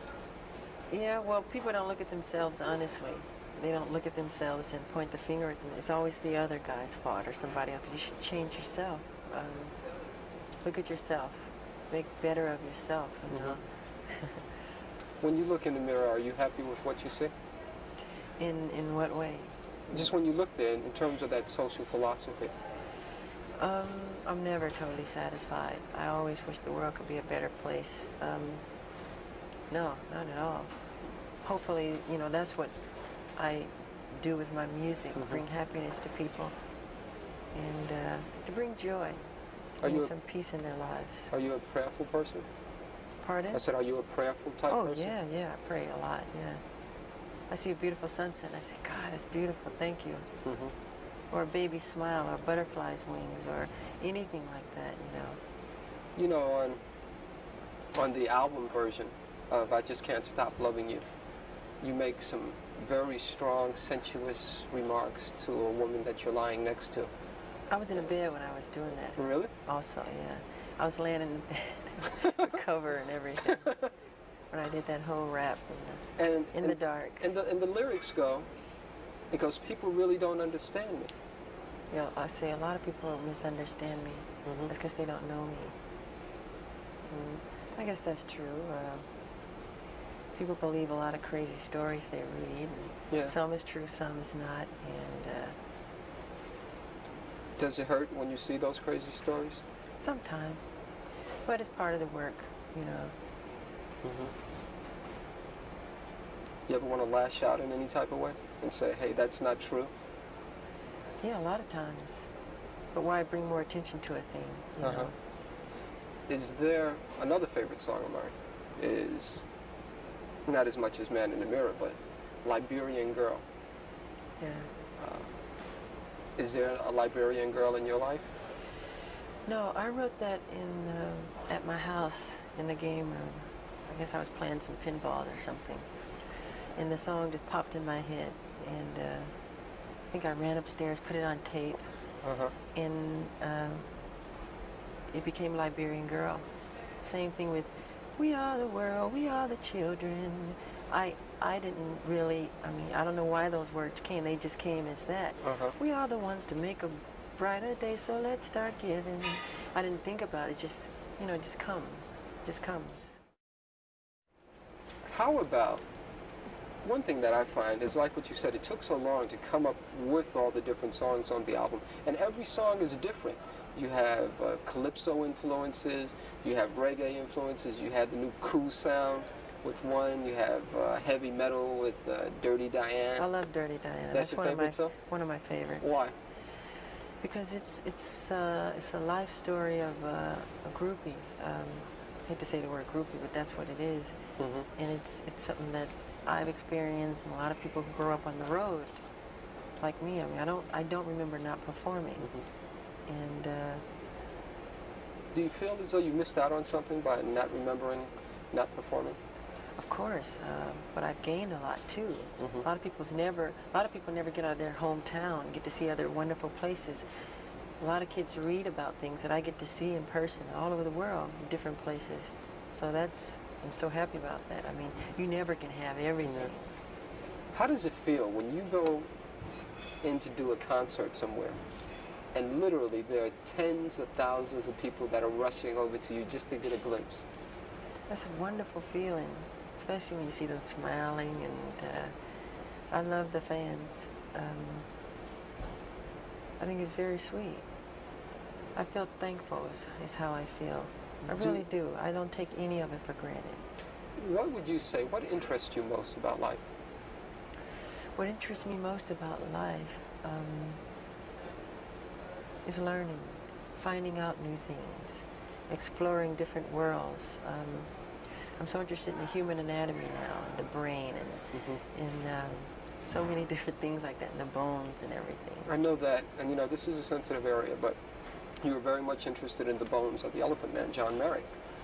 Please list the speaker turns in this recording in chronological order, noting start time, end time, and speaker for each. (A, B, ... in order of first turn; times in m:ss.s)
0:00.9-0:09.7 A
0:10.6-0:14.4 A
0:13.3-0:13.6 B
0:15.2-0:17.3 B
0:18.4-0:20.1 A
0:19.9-0:22.5 B
0:23.6-0:28.6 A
0:29.7-0:30.7 A
0:31.4-0:32.8 A
0:33.4-0:36.5 A
0:35.2-0:35.4 B
0:37.5-0:39.2 A
0:39.8-0:40.1 B
0:39.8-0:41.3 A
0:41.3-0:42.4 B
0:43.2-0:43.6 A
0:43.5-0:45.1 B
0:44.7-0:46.6 A
0:47.5-0:50.3 A
0:50.4-0:50.7 B
0:51.3-0:55.4 A
0:56.2-0:56.8 B
0:57.9-1:01.0 B
1:01.8-1:07.1 B
1:07.7-1:13.8 A
1:09.2-1:09.5 B
1:14.5-1:17.3 A
1:16.2-1:18.5 B
1:19.3-1:21.1 B
1:21.9-1:25.7 A
1:24.4-1:24.7 B
1:27.1-1:29.0 A
1:30.3-1:35.6 A
1:37.6-1:39.6 B
1:40.0-1:40.6 A
1:41.4-1:43.1 A
1:44.0-1:44.3 B
1:46.7-1:49.9 B
1:51.2-1:52.3 A
1:52.9-1:55.1 A
1:54.8-1:55.1 B
1:56.3-1:59.4 B
2:00.5-2:03.4 B
2:04.4-2:04.7 A
2:05.0-2:05.3 B
2:06.4-2:08.3 B
2:09.4-2:15.9 A
2:16.8-2:19.3 A
2:20.1-2:21.9 A
2:22.2-2:22.5 B
2:22.7-2:23.9 A
2:25.1-2:26.4 A
2:27.0-2:43.1 A
2:35.4-2:35.8 B
2:45.1-2:45.8 B
2:46.8-3:03.3 B
3:03.2-3:06.0 A
3:04.1-3:04.9 B
3:05.8-3:06.1 B
3:07.2-3:14.2 A
3:14.4-3:14.7 B
3:14.8-3:19.0 A
3:19.8-3:22.3 A
3:23.1-3:23.8 A
3:25.3-3:29.2 B
3:29.8-3:37.0 A
3:32.4-3:32.6 B
3:37.8-3:46.7 A
3:46.2-3:46.5 B
3:47.5-3:49.1 B
3:50.0-3:51.6 B
3:52.3-3:57.3 B
3:58.1-4:02.1 A
4:02.9-4:04.9 A
4:06.6-4:07.6 A
4:08.7-4:13.6 A
4:11.3-4:11.6 B
4:14.2-4:16.7 B
4:18.2-4:20.8 A
4:22.6-4:27.9 A
4:28.4-4:35.7 A
4:31.5-4:31.8 B
4:35.6-4:38.0 B
4:38.6-4:41.5 B